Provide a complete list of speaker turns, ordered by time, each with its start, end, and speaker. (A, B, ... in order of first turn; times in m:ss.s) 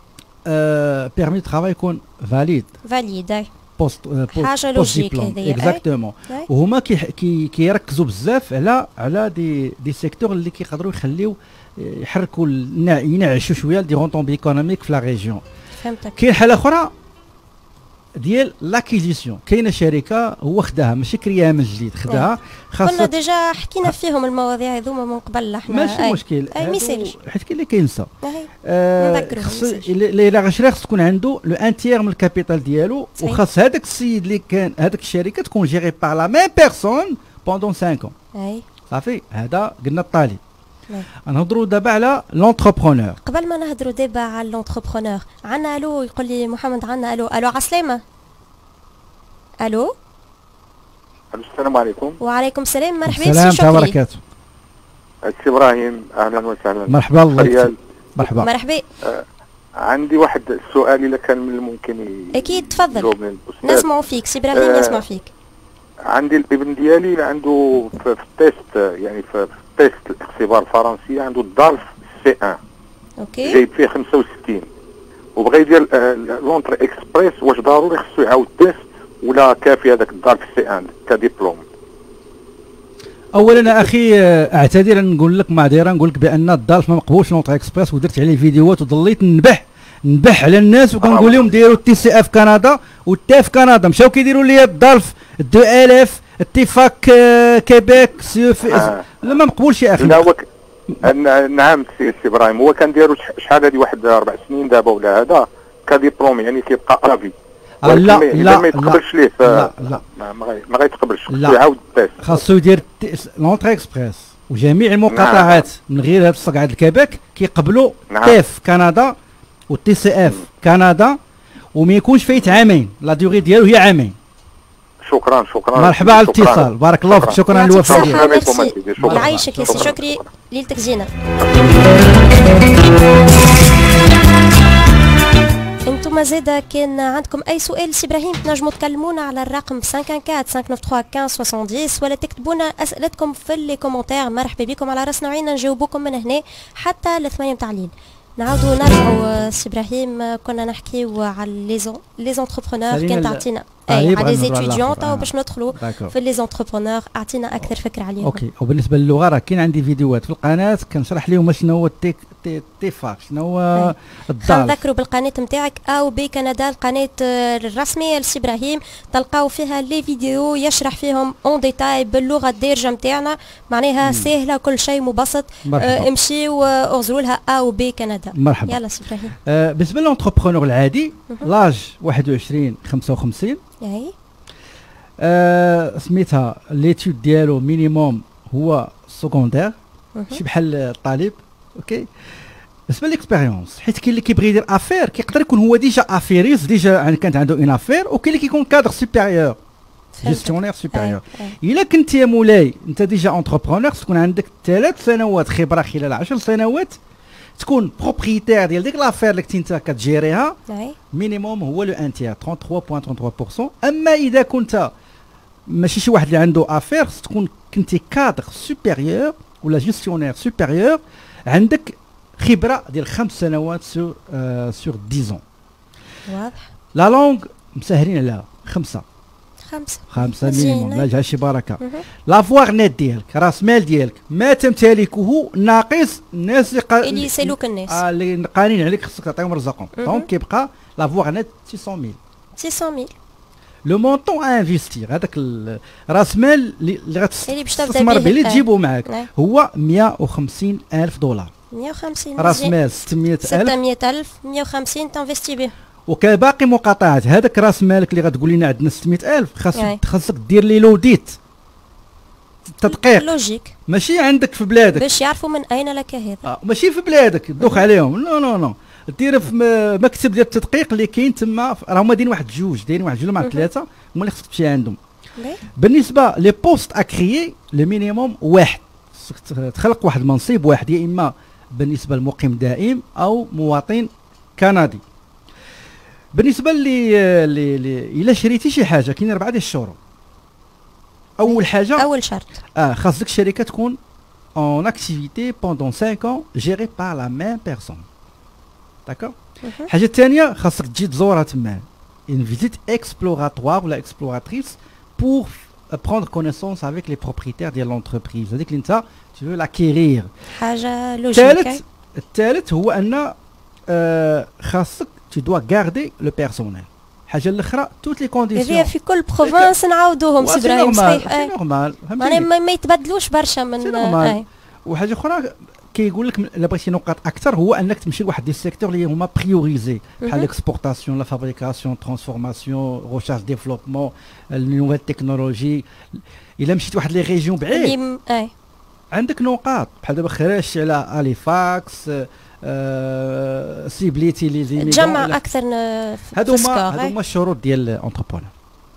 0:00.5-0:02.7 A
0:02.8-0:03.5 B
0:03.8-0:15.4 A
0:04.3-0:06.5 B
0:15.8-0:16.2 B
0:16.2-0:16.9 A
0:18.2-0:23.1 A
0:22.8-0:27.1 B
0:25.7-0:28.1 A
0:28.2-0:29.9 B
0:28.6-0:38.1 A
0:33.2-0:33.4 B
0:38.4-0:38.6 B
0:38.9-0:40.4 A
0:41.3-0:43.2 A
0:43.2-0:48.0 B
0:49.6-0:49.9 B
0:51.3-0:52.2 C
0:52.2-0:54.0 B
0:53.1-0:54.2 A
0:55.2-0:57.8 C
0:56.9-0:58.5 A
0:58.2-0:58.8 B
0:59.8-1:03.9 C
1:02.3-1:03.1 B
1:03.6-1:05.3 B
1:04.5-1:05.0 C
1:06.1-1:12.6 C
1:13.2-1:13.6 B
1:13.4-1:14.7 C
1:15.4-1:21.6 C
1:23.3-1:40.3 A
1:31.0-1:31.4 C
1:38.7-1:39.2 C
1:40.0-1:40.4 C
1:41.0-1:47.3 C
1:47.8-1:50.0 A
1:47.8-1:52.4 C
1:51.3-1:51.6 A
1:52.2-1:59.2 A
1:55.1-1:55.7 C
1:58.1-1:58.4 C
1:59.7-2:01.2 A
2:01.8-2:04.2 A
2:05.0-2:10.3 C
2:05.8-2:08.5 A
2:07.5-2:11.1 B
2:09.0-2:10.0 A
2:15.8-2:38.4 B
2:32.9-2:36.2 A
2:38.2-2:44.8 A
2:43.7-2:59.4 B
2:54.0-2:54.3 A
2:55.6-2:56.1 A
2:58.3-2:58.8 A
2:59.5-3:03.6 A
3:03.8-3:04.1 B
3:05.2-3:09.8 A
3:10.2-3:10.4 B
3:10.3-3:12.1 A
3:12.9-3:19.6 A
3:20.1-3:21.6 B
3:20.2-3:27.0 A
3:27.6-3:30.6 A
3:30.7-3:31.0 B
3:31.1-3:34.9 A
3:35.7-3:45.4 A
3:46.3-3:46.7 B
3:46.9-3:49.0 A
3:49.7-3:51.1 B
3:50.1-4:02.2 A
3:51.8-3:52.0 B
3:57.0-3:58.0 B
4:00.0-4:00.3 B
4:02.6-4:03.1 B
4:03.9-4:11.5 A
4:07.5-4:09.3 B
4:11.7-4:12.8 B
4:12.4-4:13.8 A
4:13.4-4:15.7 B
4:16.1-4:21.4 A
4:19.8-4:20.0 B
4:22.8-4:23.3 A
4:22.8-4:23.8 B
4:23.9-4:25.1 A
4:24.9-4:26.5 B
4:26.4-4:35.0 A
4:33.4-4:33.7 B
4:35.8-4:45.0 A
4:46.3-4:50.0 A
4:51.4-4:52.1 A
4:51.4-4:52.6 B
4:52.8-4:54.0 A
4:54.6-4:58.0 A
4:59.1-4:59.3 A
4:59.6-4:59.9 B
4:59.9-5:10.3 A
5:10.5-5:11.8 B
5:11.3-5:13.4 A
5:13.9-5:19.7 A
5:18.6-5:21.5 B
5:20.4-5:22.5 A
5:22.2-5:24.4 B
5:23.8-5:38.0 A
5:30.2-5:30.5 B
5:37.7-5:38.5 B
5:39.1-5:45.4 A
5:44.8-5:47.2 B
5:46.3-5:48.5 A